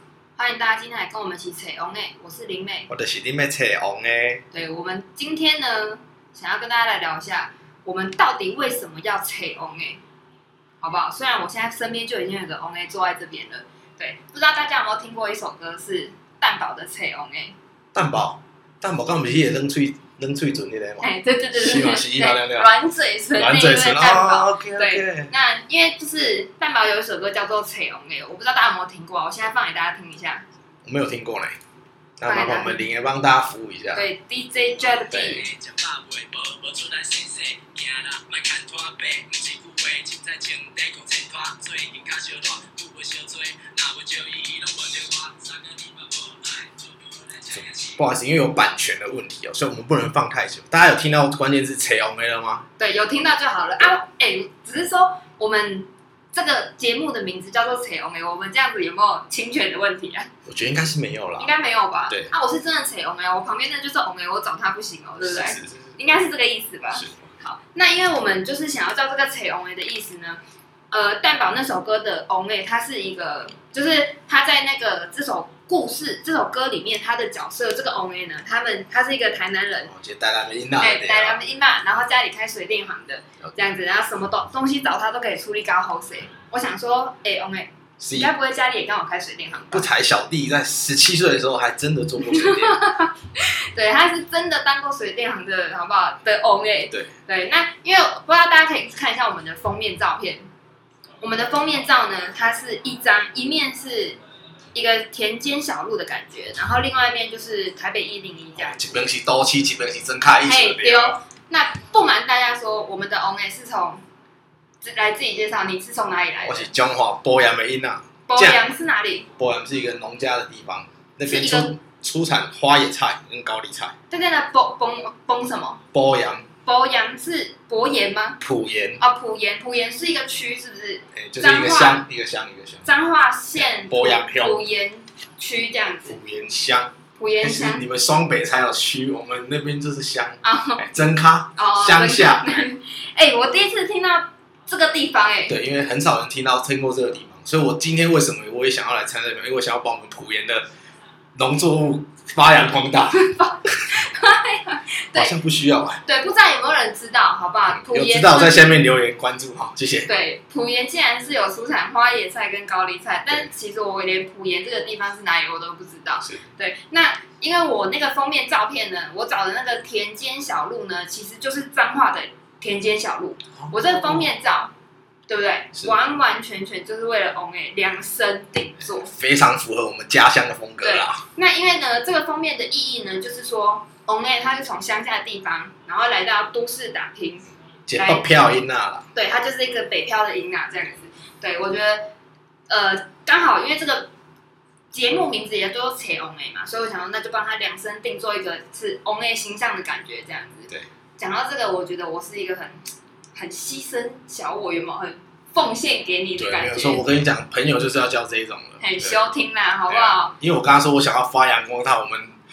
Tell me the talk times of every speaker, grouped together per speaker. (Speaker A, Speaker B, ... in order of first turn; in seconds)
Speaker A: 0.4-2.9, 4.5-10.0, 10.8-17.6, 21.0-30.4, 32.3-32.9, 34.0-35.5, 52.8-60.3, 61.4-70.4, 70.9-79.9, 80.8-89.9, 92.2-100.5, 101.2-104.2, 104.7-109.1, 110.4-114.0, 114.8-116.7, 118.3-119.3, 121.2-121.7, 124.1-125.8, 126.7-128.4, 129.0-132.1, 132.9-136.2, 137.2-137.9, 140.4-140.9, 141.6-145.6, 153.1-155.3, 156.1-158.8, 160.1-174.7, 175.3-179.1, 180.8-187.4, 188.0-188.3, 189.1-192.1, 192.7-194.1, 194.9-202.8, 203.3-207.1, 208.8-210.3
Speaker B: 2.9-4.4, 17.9-22.7, 23.3-25.3, 30.9-31.6, 32.2-34.1, 35.1-35.5, 47.4-52.7, 60.5-61.5, 65.2-66.0, 66.9-67.4, 79.8-81.4, 88.0-88.3, 89.7-92.8, 108.6-111.2, 116.4-118.6, 119.4-124.0, 125.9-126.5, 128.4-129.0, 131.1-132.9, 133.6-134.6, 136.1-142.7, 145.5-150.7, 151.3-153.3, 155.1-156.0, 157.7-160.1, 173.6-174.3, 179.0-181.2, 187.9-189.1, 206.4-209.2, 209.9-212.4
Speaker C: 35.5-47.4